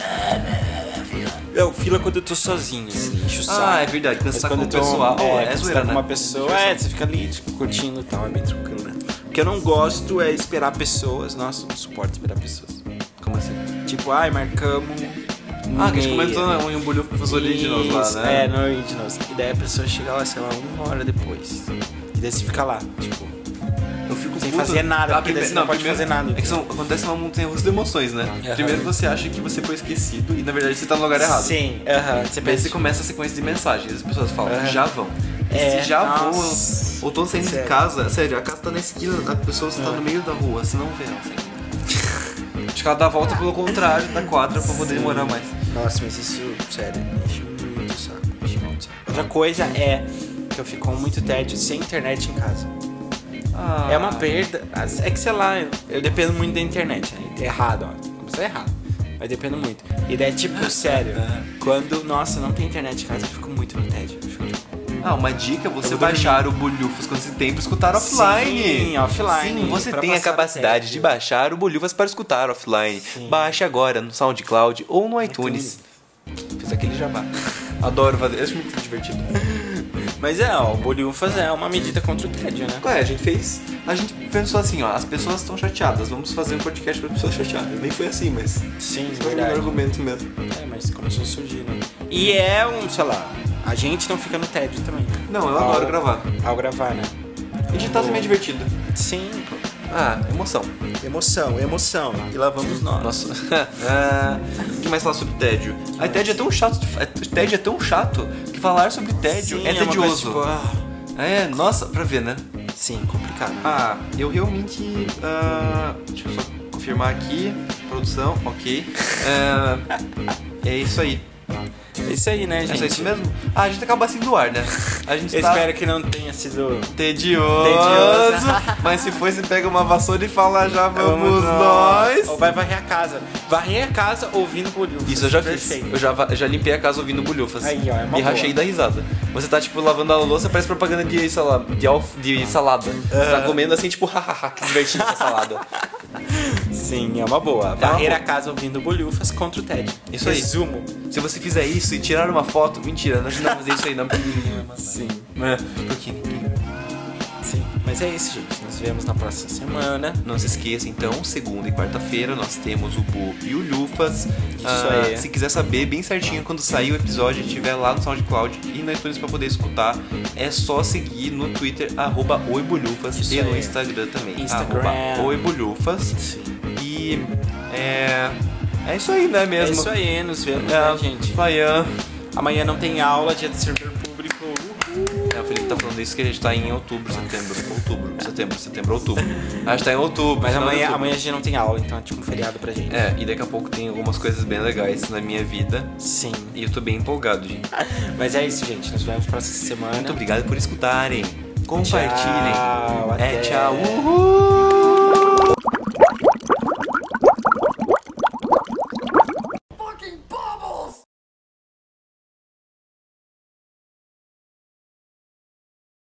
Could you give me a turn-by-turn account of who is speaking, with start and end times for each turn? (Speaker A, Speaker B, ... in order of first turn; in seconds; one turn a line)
Speaker A: 0.3-1.2
Speaker B: 1.4-12.8
Speaker A: 3.4-6.8
Speaker A: 13.2-13.6
Speaker B: 13.8-16.6
Speaker A: 15.7-18.6
Speaker B: 17.2-23.3
Speaker A: 24.1-31.6
Speaker B: 24.4-26.6
Speaker B: 28.4-28.9
Speaker B: 31.2-32.8
Speaker A: 32.4-41.6
Speaker B: 34.4-34.9
Speaker B: 35.5-37.8
Speaker B: 39.8-40.0
Speaker A: 42.7-45.5
Speaker B: 43.9-52.7
Speaker A: 53.5-54.4
Speaker B: 53.9-64.8
Speaker A: 60.5-61.5
Speaker A: 65.0-75.8
Speaker B: 65.8-66.4
Speaker B: 67.9-71.2
Speaker B: 73.1-73.6
Speaker B: 75.2-75.8
Speaker A: 76.6-79.4
Speaker B: 79.3-82.8
Speaker A: 82.8-90.3
Speaker B: 88.8-89.7
Speaker B: 90.5-97.1
Speaker A: 95.3-96.3
Speaker B: 97.7-98.3
Speaker A: 97.7-98.7
Speaker B: 98.9-99.6
Speaker A: 99.9-100.7
Speaker B: 101.0-103.2
Speaker A: 103.0-110.5
Speaker B: 106.0-106.3
Speaker B: 109.2-110.8
Speaker A: 111.1-112.4
Speaker B: 112.7-113.9
Speaker A: 113.6-119.9
Speaker A: 120.6-121.2
Speaker B: 122.0-123.1
Speaker A: 122.6-125.7
Speaker B: 124.9-126.9
Speaker A: 126.9-132.4
Speaker B: 127.5-129.0
Speaker B: 130.9-135.9
Speaker A: 135.1-145.6
Speaker B: 137.6-138.6
Speaker B: 143.1-143.6
Speaker B: 144.9-145.6
Speaker B: 146.2-150.9
Speaker A: 147.8-148.2
Speaker A: 150.1-150.5
Speaker A: 151.0-156.9
Speaker B: 154.2-155.3
Speaker B: 157.4-160.2
Speaker A: 160.2-176.2
Speaker B: 164.6-165.3
Speaker B: 173.1-173.8
Speaker B: 174.3-175.4
Speaker B: 176.2-176.6
Speaker A: 176.7-181.9
Speaker B: 179.6-181.4
Speaker B: 182.3-185.8
Speaker A: 185.3-191.1
Speaker B: 190.4-193.1
Speaker A: 192.9-195.9
Speaker B: 196.0-196.6
Speaker A: 196.5-197.7
Speaker B: 197.7-200.2
Speaker A: 199.9-205.3
Speaker B: 201.8-204.1